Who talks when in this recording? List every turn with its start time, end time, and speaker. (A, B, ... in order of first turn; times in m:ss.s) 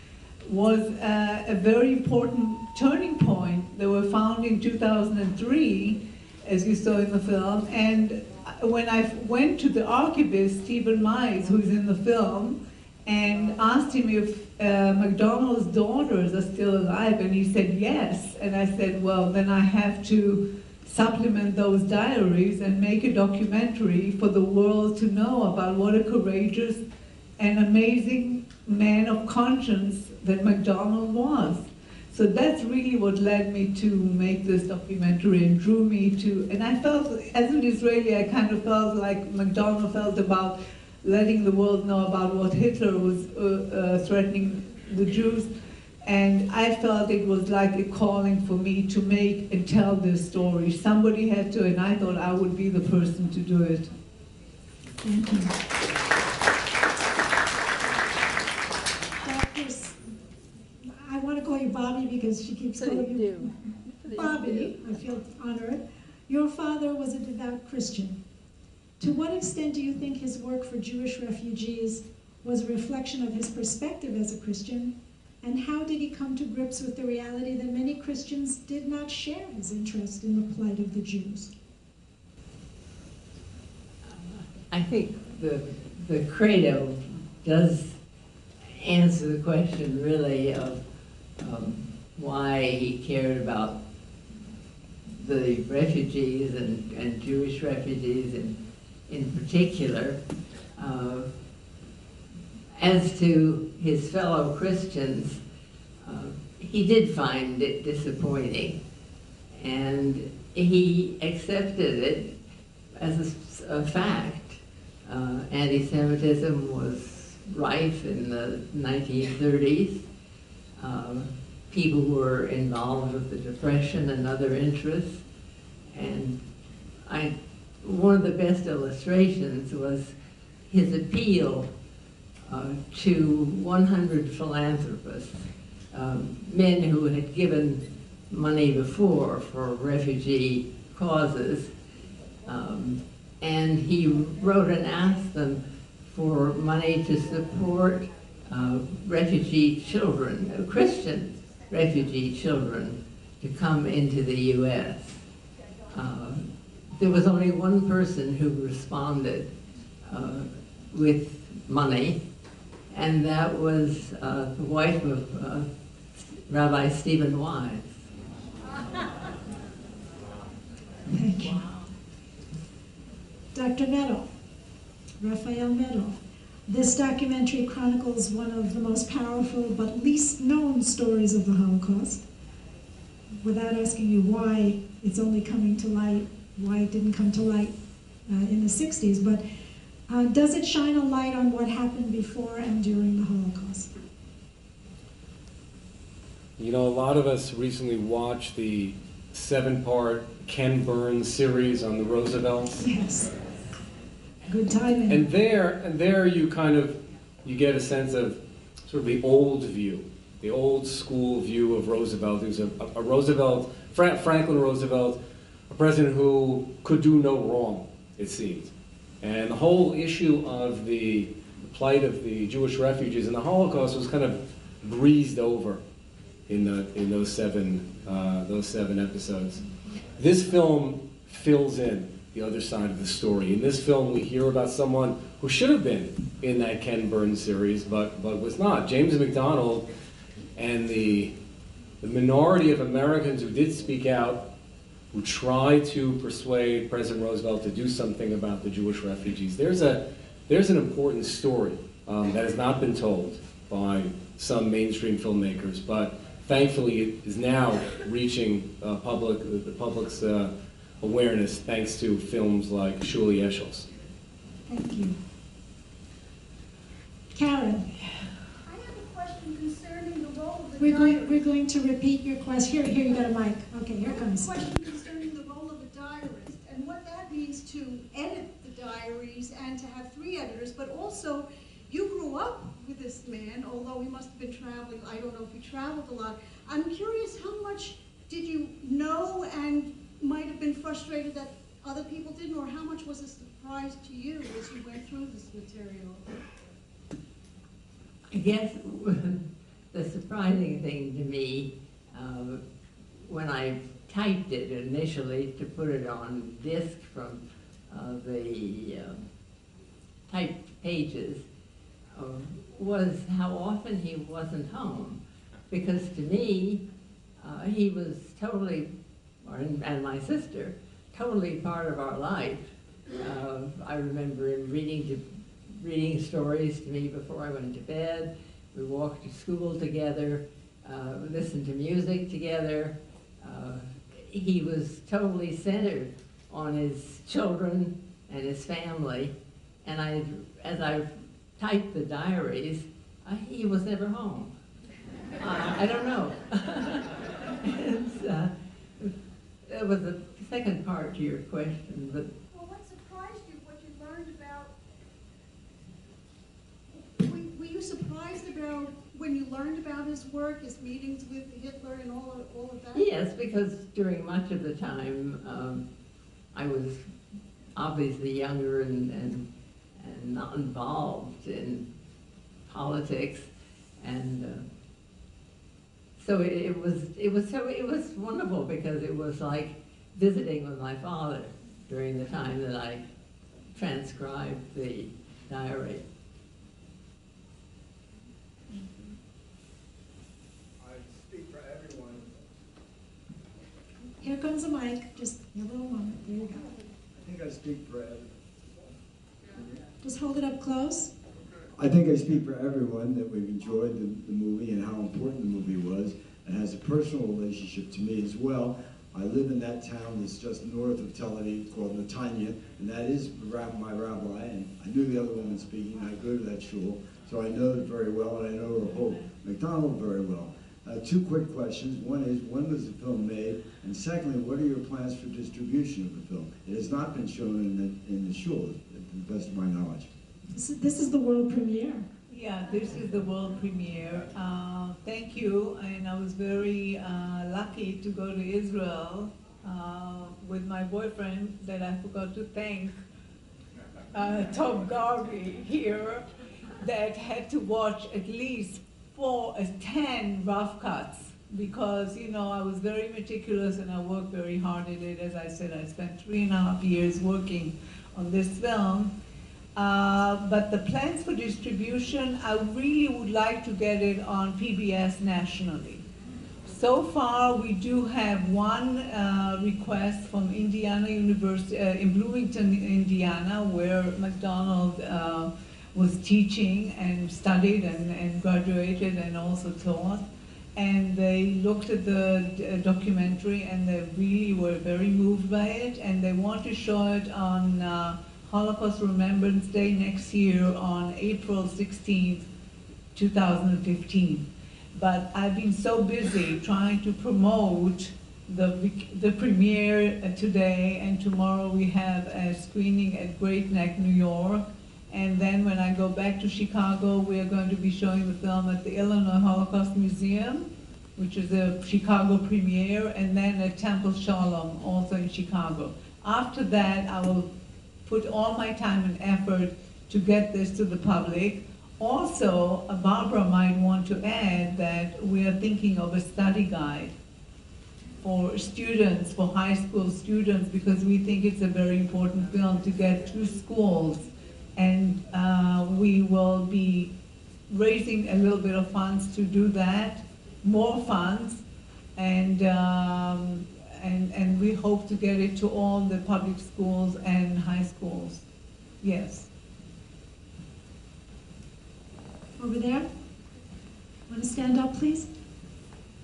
0:00.4-0:26.8 A
0:27.4-0:45.5 A
0:46.0-0:53.9 A
0:55.0-0:55.6 B
0:59.2-1:00.0 B
1:00.8-1:03.6 B
1:04.1-1:08.2 B
1:09.0-1:21.5 B
1:24.1-1:28.0 C
1:28.8-1:30.8 C
1:31.4-1:33.8 C
1:35.2-1:38.6 C
1:39.1-1:40.2 C
1:40.8-1:41.3 C
1:42.8-1:45.4 C
1:46.0-1:48.8 C
1:49.6-1:52.4 C
1:53.0-2:00.1 C
2:00.8-2:05.2 C
2:05.9-2:06.4 C
2:07.1-2:10.1 C
2:10.7-2:11.7 C
2:12.5-2:21.7 C
2:22.5-2:35.2 C
2:35.9-2:39.5 C
2:40.1-2:42.2 C
2:42.9-2:45.7 C
2:46.2-2:47.9 C
2:51.1-2:51.7 B
2:53.5-2:54.3 B
2:55.2-3:02.3 B
3:03.4-3:07.8 B
3:08.3-3:09.4 B
3:10.1-3:13.9 B
3:16.6-3:22.8 D
3:22.8-3:23.3 B
3:24.5-3:25.2 B
3:25.1-3:35.2 D
3:35.7-3:38.7 D
3:39.2-3:45.8 D
3:46.5-3:49.6 D
3:50.2-3:59.9 D
4:00.6-4:01.3 D
4:02.0-4:04.5 D
4:05.1-4:23.9 D
4:24.7-4:25.2 B
4:27.3-4:27.9 B
4:28.6-4:31.6 E
4:30.8-4:34.7 B
4:34.0-4:56.2 E
4:58.3-5:02.6 C
5:03.3-5:09.2 C
5:10.3-5:11.4 C
5:12.2-5:16.8 C
5:17.4-5:18.9 C
5:19.4-5:22.7 C
5:23.2-5:39.3 C
5:39.8-5:44.5 C
5:45.4-5:47.1 C
5:47.6-5:49.1 C
5:49.7-5:52.3 C
5:52.5-5:54.8 E
5:57.2-6:03.1 E
6:03.0-6:05.9 C
6:06.5-6:07.0 C
6:07.8-6:09.5 C
6:10.0-6:11.9 C
6:12.7-6:13.5 C
6:14.0-6:14.7 C
6:16.2-6:23.0 C
6:23.8-6:26.0 C
6:30.8-6:32.5 F
6:34.2-6:36.7 B
6:37.2-6:38.9 F
6:39.5-6:39.8 F
6:40.0-6:41.1 B
6:41.8-7:10.1 F
7:10.5-7:12.1 B
7:12.3-7:23.0 A
7:24.1-7:26.2 A
7:26.8-7:39.1 A
7:39.8-7:46.0 A
7:46.7-8:00.2 A
8:00.8-8:12.5 A
8:13.1-8:37.5 A
8:38.0-8:47.1 A
8:48.2-8:57.1 A
8:57.7-9:01.6 A
9:02.2-9:08.4 A
9:09.0-9:09.5 A
9:12.6-9:13.1 B
9:14.3-9:15.3 B